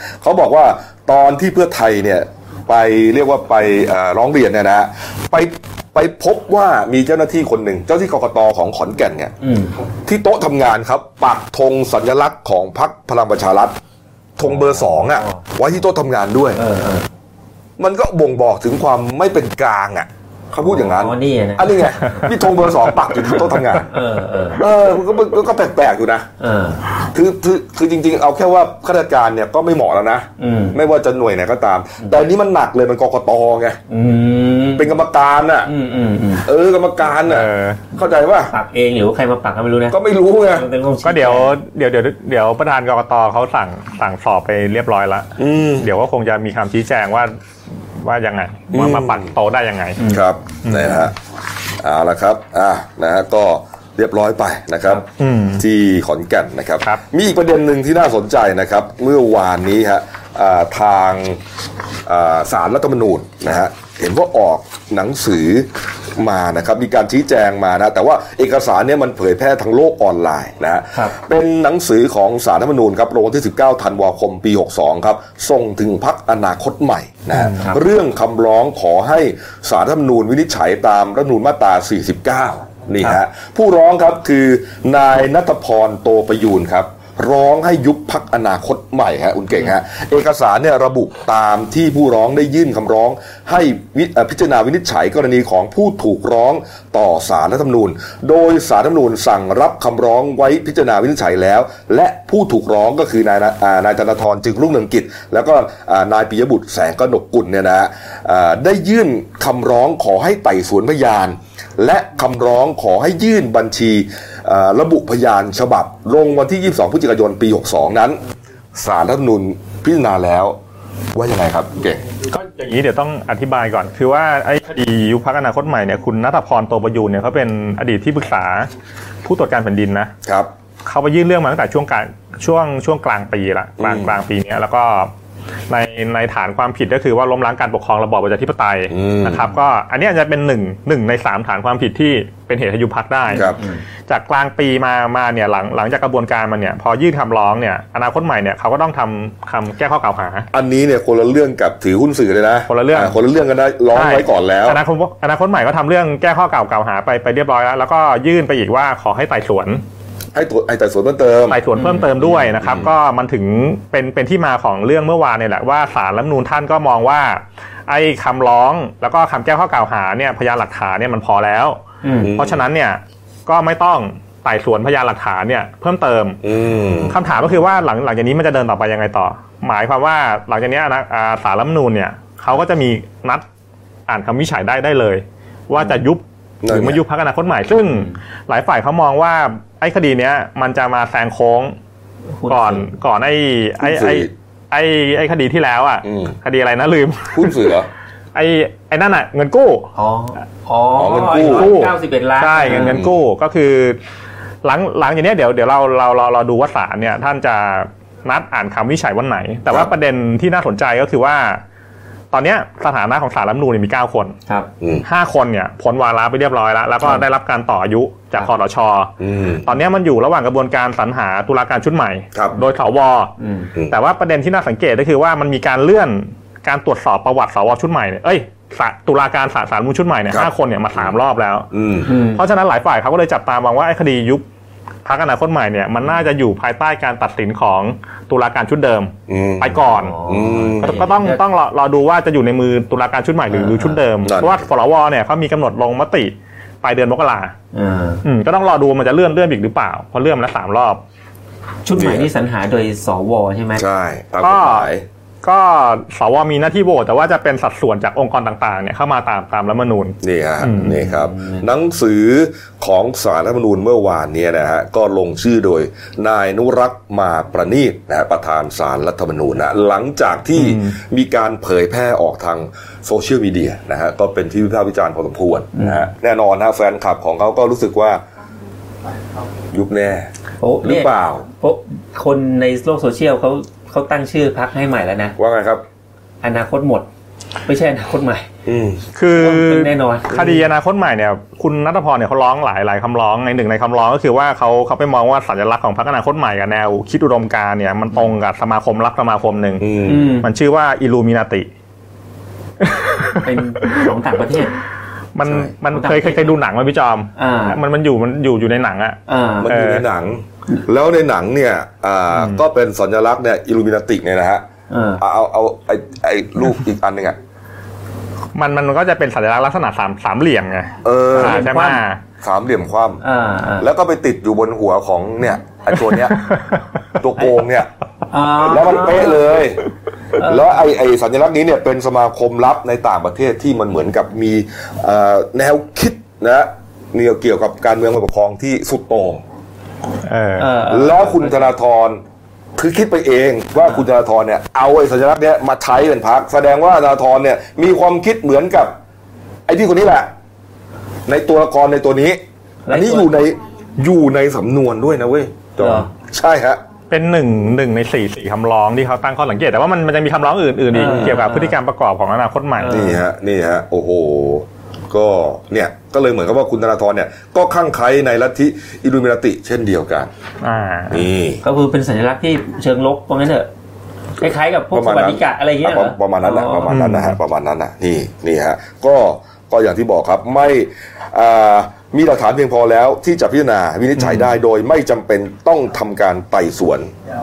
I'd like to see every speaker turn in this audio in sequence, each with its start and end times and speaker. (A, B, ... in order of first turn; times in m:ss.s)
0:00.2-0:09.3 A
0:09.4-0:09.7 B
0:10.0-0:13.8 A
0:14.4-0:16.6 A
0:14.4-0:15.4 B
0:16.6-0:17.1 B
0:17.8-0:23.9 A
0:20.6-0:22.3 B
0:23.8-0:24.6 B
0:24.5-0:26.3 A
0:26.4-0:26.8 B
0:27.0-0:33.8 A
0:30.4-0:30.8 B
0:33.9-0:34.9 B
0:34.8-0:35.7 A
0:35.6-0:36.4 B
0:36.4-0:38.5 A
0:37.2-0:37.8 C
0:38.5-0:41.6 B
0:39.9-0:40.6 A
0:41.0-0:47.3 C
0:45.4-0:45.9 A
0:48.0-0:50.0 C
0:48.7-0:49.3 A
0:50.1-0:51.1 A
0:50.6-0:51.1 C
0:51.8-0:55.0 A
0:55.2-0:55.6 C
0:55.6-1:01.4 A
1:02.1-1:58.2 A
1:17.4-1:17.8 B
1:58.8-2:00.6 A
2:01.1-2:02.0 A
2:02.3-2:08.7 C
2:09.2-2:10.1 C
2:10.8-2:15.1 C
2:13.8-2:14.1 A
2:15.7-2:23.5 C
2:18.9-2:19.5 A
2:23.3-2:23.8 B
2:23.3-2:23.6 A
2:24.1-2:30.5 C
2:30.5-2:34.8 A
2:32.7-2:33.1 C
2:33.9-2:39.8 C
2:40.3-2:41.6 A
2:41.5-2:51.8 C
2:41.8-2:42.6 B
2:52.0-2:52.4 B
2:52.2-2:52.6 A
2:52.4-2:56.4 C
2:56.4-2:57.2 A
2:57.1-3:03.4 C
3:04.1-3:11.7 C
3:06.6-3:07.0 A
3:12.4-3:12.9 B
3:12.5-3:17.7 C
3:13.8-3:14.3 A
3:16.0-3:16.4 A
3:17.3-3:17.9 A
3:18.4-3:19.9 C
3:19.9-3:23.0 B
3:20.9-3:21.7 A
3:21.4-3:24.0 C
3:22.7-3:23.1 A
3:24.6-3:31.6 C
3:32.3-3:34.4 C
3:35.0-3:39.1 C
3:39.2-3:39.7 A
3:39.6-3:43.3 C
3:43.4-3:43.7 B
3:43.9-3:54.4 C
3:50.3-3:51.1 A
3:51.7-3:52.1 A
3:52.0-3:52.4 B
3:55.0-4:00.2 C
3:59.3-4:01.0 A
3:59.8-4:01.4 B
4:00.8-4:07.5 C
4:03.5-4:04.0 B
4:04.2-4:04.6 A
4:07.7-4:08.2 B
4:08.2-4:11.0 C
4:11.8-4:13.8 B
4:12.0-4:12.3 A
4:13.8-4:15.0 A
4:14.4-4:14.9 C
4:15.4-4:20.9 C
4:20.2-4:38.2 A
4:20.8-4:21.6 B
4:30.6-4:30.9 C
4:35.8-4:36.0 B
4:39.7-4:40.3 A
4:40.6-4:45.4 B
4:40.8-4:41.4 A
4:45.4-4:45.8 A
4:46.4-4:47.1 B
4:47.6-4:48.5 B
4:48.6-4:49.0 A
4:49.2-5:01.7 C
4:49.3-4:50.5 B
4:59.8-5:00.4 A
5:00.0-5:00.5 B
5:02.8-5:04.1 C
5:03.4-5:04.8 B
5:05.4-5:10.0 C
5:05.4-5:06.6 B
5:07.4-5:07.8 B
5:09.3-5:09.7 B
5:09.6-5:14.6 A
5:14.9-5:15.2 B
5:15.2-5:17.4 A
5:18.5-5:22.2 C
5:21.0-5:21.8 A
5:21.3-5:22.0 B
5:22.4-5:23.2 A
5:23.2-5:23.9 B
5:23.8-5:26.6 A
5:27.2-5:27.9 A
5:28.3-5:29.4 B
5:28.5-5:29.8 A
5:30.4-5:30.7 B
5:30.4-5:39.4 A
5:40.2-5:40.7 C
5:40.6-5:41.7 B
5:40.9-5:42.2 A
5:42.8-5:48.9 A
5:49.7-5:50.3 A
5:51.3-5:56.8 A
5:52.9-5:53.3 B
5:55.8-5:56.1 B
5:57.1-6:03.0 C
6:00.9-6:01.8 B
6:01.0-6:01.4 A
6:02.8-6:03.2 B
6:02.9-6:10.3 A
6:10.6-6:11.2 C
6:11.1-6:11.6 A
6:11.6-6:13.7 B
6:14.4-6:17.1 B
6:14.9-6:27.1 A
6:16.9-6:17.4 C
6:24.2-6:24.5 C